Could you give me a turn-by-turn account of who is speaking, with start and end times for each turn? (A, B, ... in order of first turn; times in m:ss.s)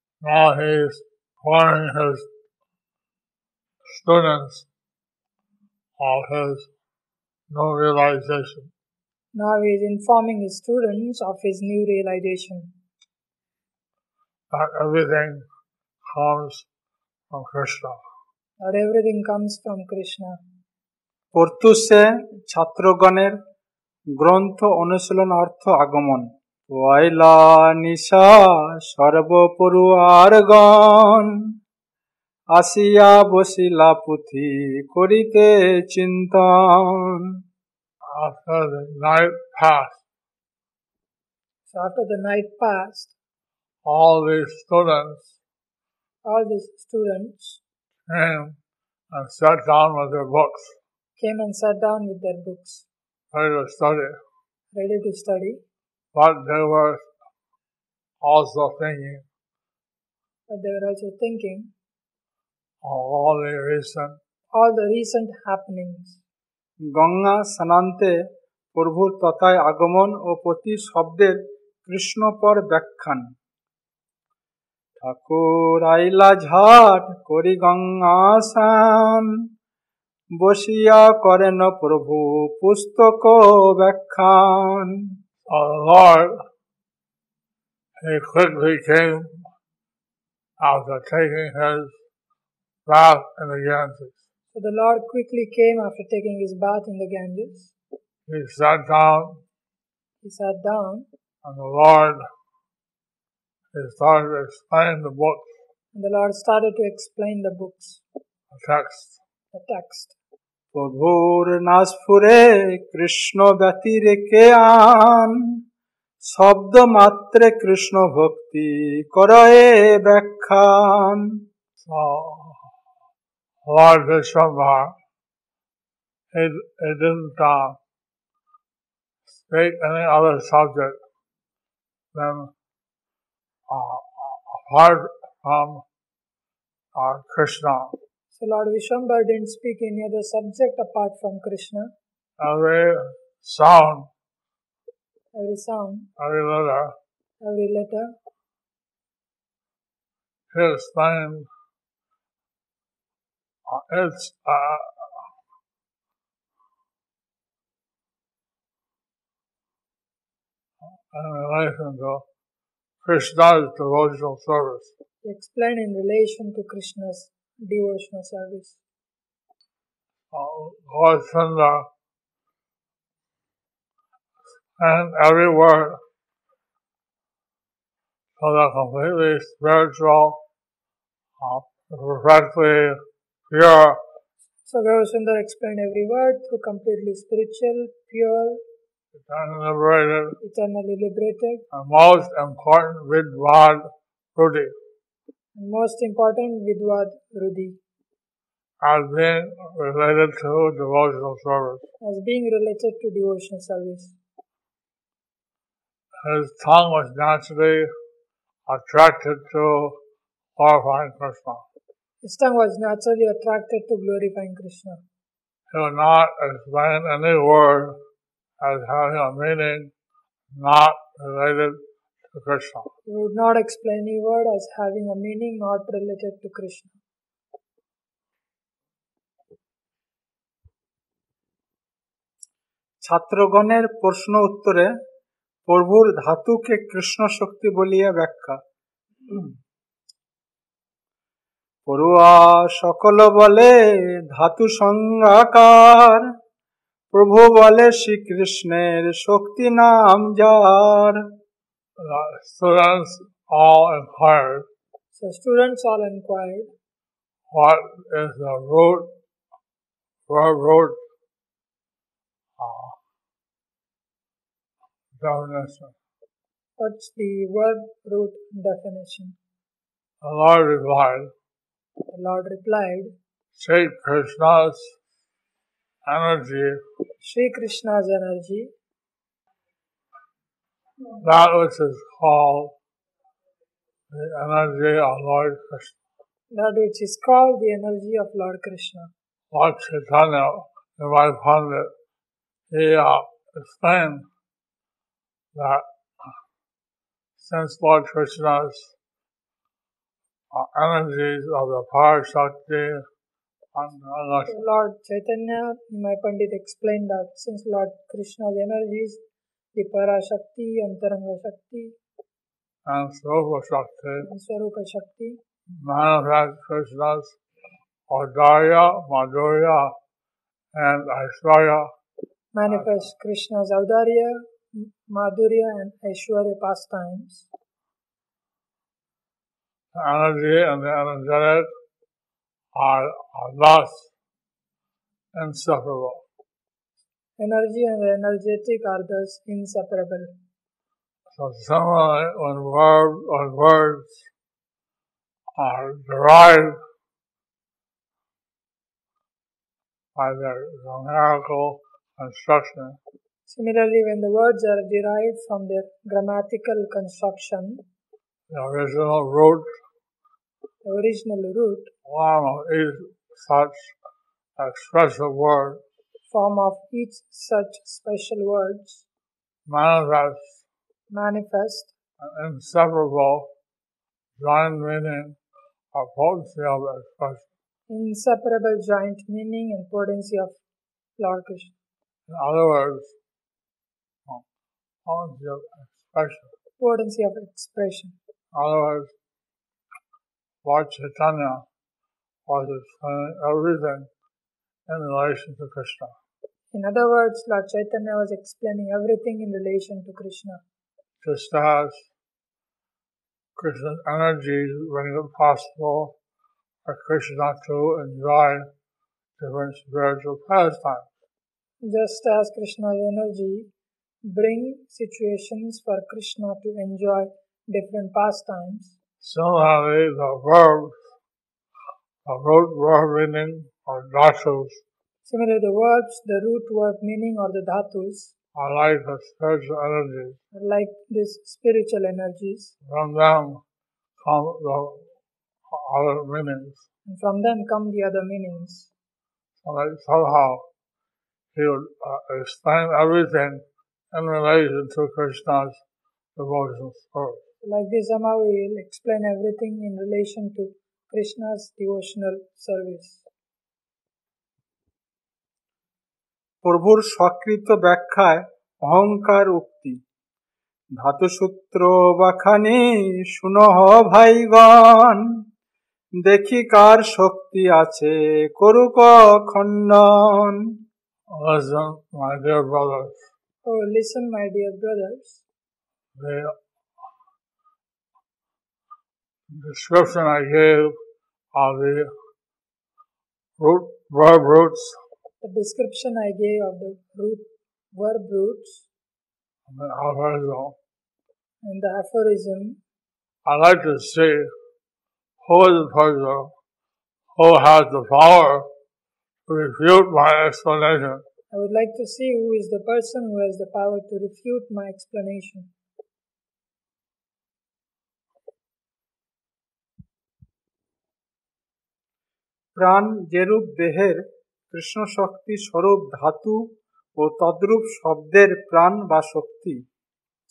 0:00.2-0:02.3 A
0:03.9-0:04.7 A
0:06.0-0:06.7 A
0:07.5-0:08.7 A
0:09.3-0:12.7 B
0:14.5-0:15.4 A
0:16.1-0:16.7 A
0:17.3-0:18.0 A
0:18.6-0:20.4 B
0:21.3-0:23.4 C
0:24.2-0:31.3 C
0:32.5-0:37.3 C
0:38.1-0:40.0 A
0:41.7-0:43.2 B
0:43.8-0:45.4 A
0:46.2-0:47.6 B
0:48.1-0:48.6 A
0:49.1-0:50.8 A
0:51.2-0:52.9 B
0:53.3-0:54.2 A
0:54.7-0:55.6 B
0:56.1-0:57.1 A
0:58.2-0:59.2 A
1:00.5-1:01.7 B
1:02.8-1:04.2 A
1:04.5-1:06.2 B
1:06.9-1:08.2 C
1:08.8-1:13.3 C
1:15.0-1:19.3 C
1:20.4-1:25.1 C
1:25.5-1:26.4 A
1:28.0-1:29.3 A
1:30.6-1:32.0 A
1:32.9-1:34.2 A
1:34.5-1:37.7 B
1:38.3-1:39.4 A
1:40.2-1:41.1 B
1:41.4-1:42.2 A
1:43.7-1:45.6 A
1:45.9-1:48.0 B
1:48.5-1:49.2 A
1:49.5-1:50.2 B
1:50.7-1:55.4 C
1:56.2-2:01.4 C
2:01.8-2:02.6 A
2:03.6-2:04.9 A
2:06.3-2:07.8 A
2:09.3-2:11.0 A
2:12.1-2:12.5 A
2:13.7-2:15.8 A
2:17.0-2:18.0 A
2:18.3-2:21.9 B
2:22.4-2:24.1 A
2:25.3-2:26.1 B
2:26.2-2:26.9 A
2:27.4-2:28.1 B
2:30.5-2:31.5 A
2:33.7-2:35.1 A
2:41.1-2:42.2 A
2:43.0-2:44.9 A
2:45.2-2:48.8 B
2:50.3-2:51.9 A
2:54.8-2:56.0 A
2:58.4-3:00.4 A
3:01.4-3:03.0 A
3:03.5-3:04.0 A
3:04.7-3:08.6 B
3:09.2-3:10.4 A
3:10.4-3:11.6 B
3:11.7-3:14.7 A
3:15.6-3:17.8 B
3:18.8-3:21.9 A
3:22.0-3:24.2 B
3:26.2-3:27.9 A
3:28.7-3:30.0 A
3:30.6-3:31.6 A
3:32.2-3:35.0 B
3:35.7-3:38.0 A
3:38.6-3:39.9 A
3:40.5-3:41.8 A
3:42.3-3:42.9 A
3:43.1-3:47.0 B
3:53.0-3:54.9 C
3:55.7-3:58.6 C
4:01.9-4:06.3 C
4:07.1-4:11.2 C
4:12.0-4:14.7 A
4:15.1-4:16.7 B
4:17.5-4:19.1 A
4:20.3-4:21.0 A
4:22.6-4:23.0 A
4:25.2-4:25.9 A
4:26.8-4:29.4 B
4:30.2-4:31.3 A
4:32.1-4:33.1 B
4:33.6-4:35.0 A
4:36.1-4:36.8 A
4:37.2-4:38.7 B
4:41.2-4:42.7 A
4:44.1-4:46.0 A
4:46.5-4:49.1 B
4:49.5-4:51.9 A
4:52.7-4:54.3 A
4:55.6-4:55.8 A
4:57.4-4:58.9 A
5:00.5-5:03.0 A
5:03.8-5:04.6 A
5:04.5-5:09.2 B
5:09.8-5:12.0 B
5:12.9-5:14.3 A
5:14.2-5:15.4 B
5:15.8-5:17.4 A
5:18.1-5:19.9 A
5:20.8-5:21.9 A
5:22.5-5:27.5 B
5:30.0-5:31.7 A
5:32.8-5:34.1 A
5:35.3-5:36.2 A
5:37.4-5:40.3 B
5:41.3-5:44.2 A
5:45.6-5:46.8 A
5:50.2-5:53.0 A
5:53.5-5:57.8 B
5:58.5-5:59.7 A
6:00.8-6:01.9 B
6:02.1-6:03.9 A
6:04.6-6:05.8 A
6:06.3-6:09.1 B
6:09.7-6:10.6 A
6:11.1-6:11.9 B
6:12.2-6:13.5 A
6:14.4-6:15.4 A
6:15.9-6:17.5 A
6:17.9-6:20.6 B
6:21.2-6:21.8 B
6:22.3-6:23.1 A
6:25.1-6:26.5 A
6:26.8-6:28.2 B
6:28.5-6:29.1 A
6:30.6-6:31.6 A
6:32.5-6:34.1 A
6:34.9-6:36.1 A
6:36.7-6:40.6 B
6:41.2-6:42.1 A
6:43.6-6:46.2 A
6:46.8-6:48.7 A
6:49.4-6:51.1 A
6:51.8-6:53.7 B
6:54.3-6:59.0 B
6:59.2-7:01.0 A
7:02.2-7:04.8 A
7:05.3-7:08.3 B
7:08.6-7:10.4 A
7:10.5-7:12.7 B
7:12.8-7:13.6 A
7:14.2-7:15.1 A
7:15.7-7:16.8 A
7:17.1-7:18.9 B
7:19.6-7:20.6 A
7:21.5-7:25.8 A
7:26.4-7:27.4 A
7:27.6-7:33.2 B
7:36.6-7:40.0 C
7:41.0-7:45.2 C
7:46.2-7:50.6 C
7:51.3-7:53.3 A
7:53.7-7:55.4 B
7:56.2-7:56.5 A
7:59.5-8:01.0 A
8:01.6-8:02.1 A
8:03.6-8:05.0 A
8:05.4-8:08.9 B
8:09.7-8:10.8 A
8:11.6-8:12.8 B
8:13.4-8:14.5 A
8:15.4-8:16.5 A
8:17.4-8:18.7 A
8:19.5-8:21.2 A
8:21.5-8:25.7 B
8:32.8-8:39.8 C